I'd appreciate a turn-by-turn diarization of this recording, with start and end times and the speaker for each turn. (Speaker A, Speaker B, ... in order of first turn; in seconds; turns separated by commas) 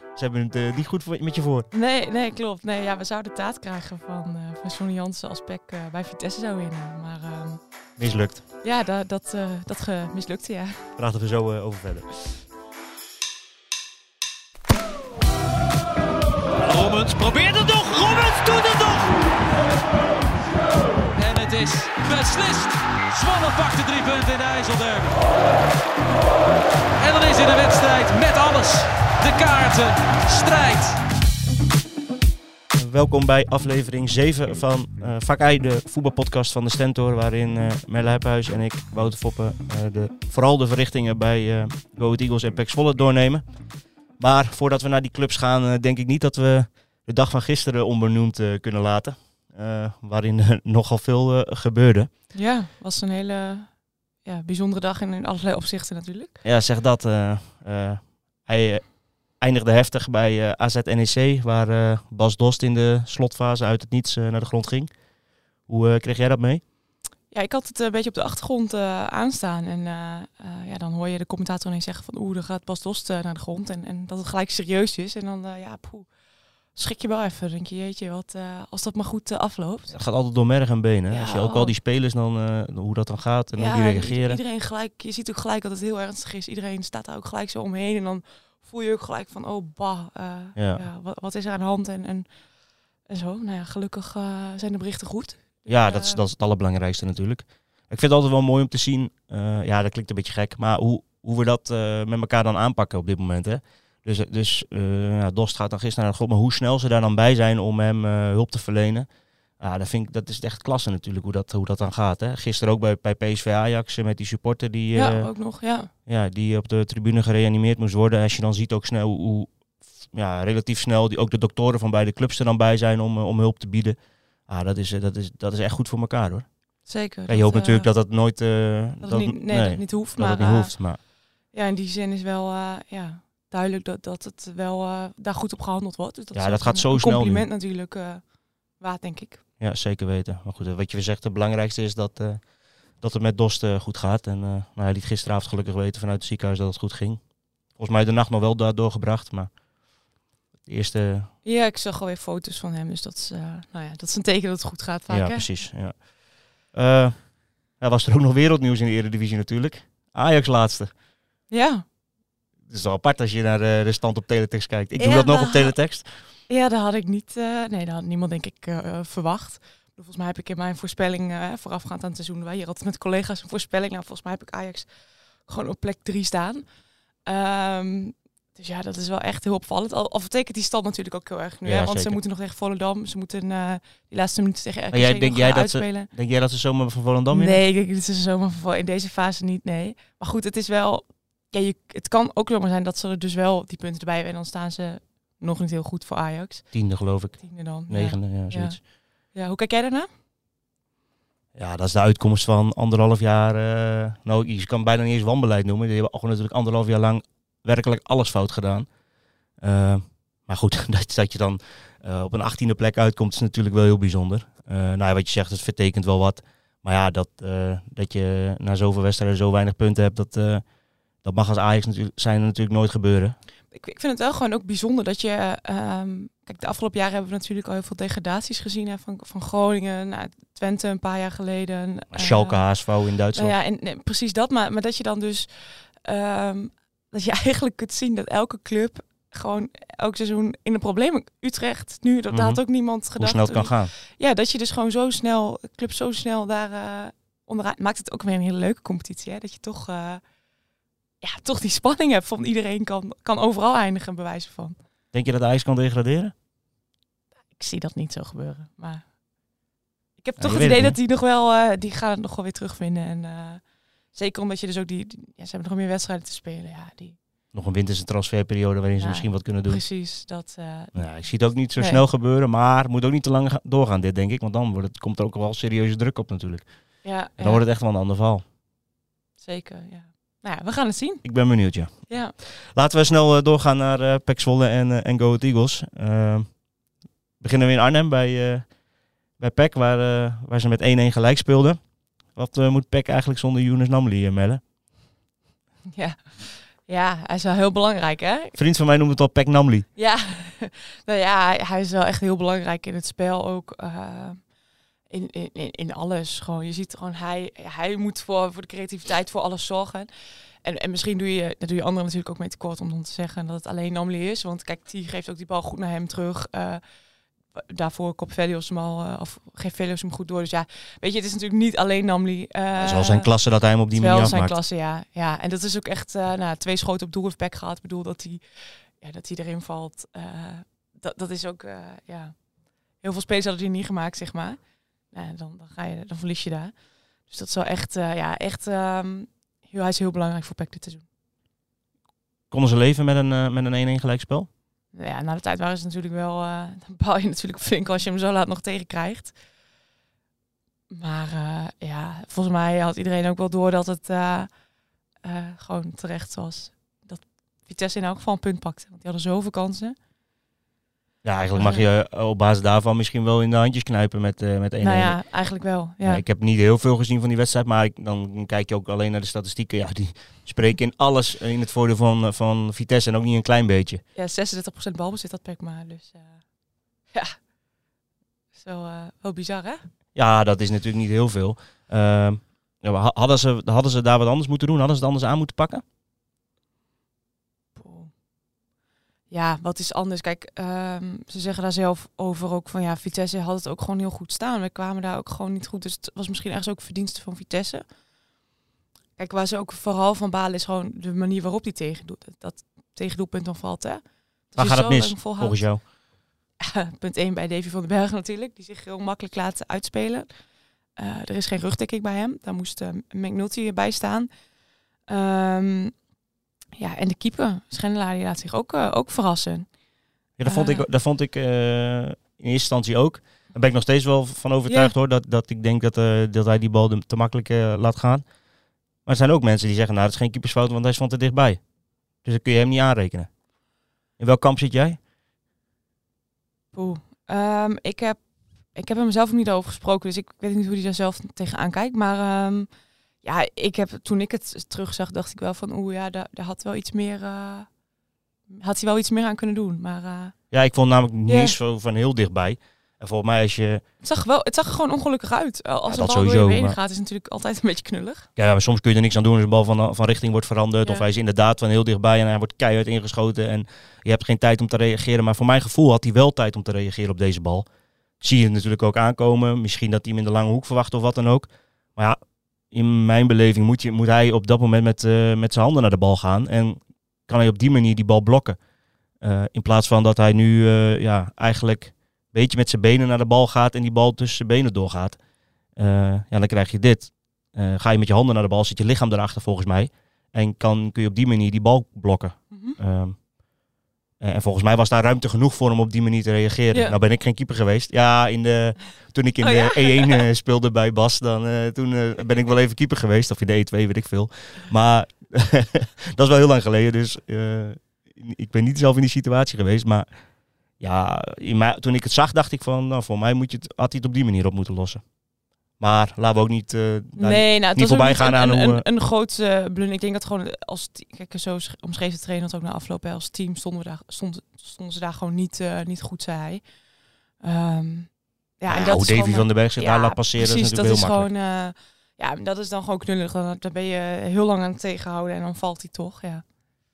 Speaker A: 0.2-1.7, Speaker B: 1.7-7.6, Speaker A: 8.0-8.4, Speaker B: 8.6-10.9, Speaker A: 11.0-12.1, Speaker C: 16.6-19.2, Speaker C: 21.1-25.2, Speaker C: 27.0-31.0, Speaker A: 32.8-52.1, Speaker B: 52.3-56.4, Speaker A: 56.4-64.9, Speaker A: 65.7-66.6, Speaker B: 67.3-76.1, Speaker B: 76.8-80.0, Speaker A: 79.9-84.4, Speaker B: 81.1-81.7, Speaker B: 83.6-92.3, Speaker A: 90.6-90.8, Speaker B: 93.1-96.2, Speaker A: 95.7-109.1, Speaker A: 109.6-115.3, Speaker B: 115.0-115.9, Speaker A: 116.1-119.5, Speaker A: 120.1-126.5, Speaker B: 126.9-127.9, Speaker A: 127.3-131.0, Speaker B: 129.0-130.8, Speaker B: 131.5-138.3, Speaker A: 136.3-137.5, Speaker B: 138.8-139.4, Speaker A: 139.6-142.4, Speaker A: 142.9-149.5, Speaker A: 150.6-151.3, Speaker B: 151.4-155.5, Speaker A: 155.1-160.9, Speaker B: 161.5-161.8, Speaker A: 162.7-166.1, Speaker B: 165.0-165.7, Speaker B: 166.5-176.7, Speaker B: 177.2-186.1, Speaker A: 181.6-182.2, Speaker A: 184.9-187.6, Speaker B: 187.3-196.7, Speaker A: 196.7-198.8, Speaker B: 197.4-200.1, Speaker A: 201.6-208.9, Speaker A: 209.6-220.6, Speaker A: 221.2-223.4, Speaker B: 223.7-232.7, Speaker A: 232.1-233.6, Speaker B: 233.3-250.2, Speaker A: 242.3-242.6, Speaker A: 243.2-243.9, Speaker B: 251.2-254.8, Speaker A: 255.1-256.3, Speaker B: 257.5-259.1, Speaker B: 260.2-267.2, Speaker A: 260.4-261.0, Speaker A: 267.5-269.8, Speaker B: 269.0-272.0, Speaker A: 270.9-276.7, Speaker B: 277.0-277.6, Speaker A: 277.4-278.4, Speaker B: 279.4-281.2, Speaker A: 281.2-286.6, Speaker B: 282.1-282.4, Speaker A: 287.4-288.7, Speaker A: 289.4-291.8, Speaker A: 292.3-294.6, Speaker B: 295.9-298.6, Speaker A: 298.6-299.9, Speaker B: 300.0-304.5, Speaker B: 305.1-316.8, Speaker B: 317.5-323.3, Speaker A: 322.8-324.6, Speaker B: 323.9-332.4, Speaker B: 333.0-334.6, Speaker B: 335.1-336.8, Speaker B: 337.3-341.0, Speaker A: 342.5-344.5, Speaker B: 344.9-349.4, Speaker B: 350.9-354.5, Speaker B: 355.2-360.0, Speaker A: 361.2-365.2, Speaker B: 361.6-361.9, Speaker B: 364.8-366.2, Speaker A: 366.0-374.0, Speaker B: 374.1-376.4, Speaker B: 377.1-377.4, Speaker B: 378.6-379.8, Speaker A: 380.1-385.8, Speaker B: 387.8-388.1, Speaker B: 389.3-397.9, Speaker B: 399.2-405.7, Speaker A: 404.6-405.8, Speaker B: 406.6-410.3, Speaker B: 411.0-414.3, Speaker B: 415.1-415.9, Speaker B: 416.8-419.7, Speaker A: 420.4-428.2, Speaker B: 420.4-420.9, Speaker B: 424.7-424.9, Speaker A: 429.1-431.6, Speaker A: 432.2-433.3, Speaker A: 434.2-435.0, Speaker B: 436.7-438.2, Speaker B: 438.7-442.7, Speaker B: 443.2-447.7, Speaker B: 448.5-450.4, Speaker A: 450.5-453.8, Speaker B: 451.3-451.6, Speaker B: 454.0-458.3, Speaker A: 455.9-456.8, Speaker A: 458.4-467.7, Speaker A: 468.2-472.2, Speaker A: 472.7-478.6, Speaker A: 479.2-485.2, Speaker A: 485.8-493.2, Speaker B: 492.5-492.8, Speaker A: 494.2-510.1, Speaker B: 499.4-500.2, Speaker A: 510.8-515.0, Speaker A: 515.8-518.9, Speaker B: 517.2-526.7, Speaker B: 527.4-536.4, Speaker A: 528.7-531.3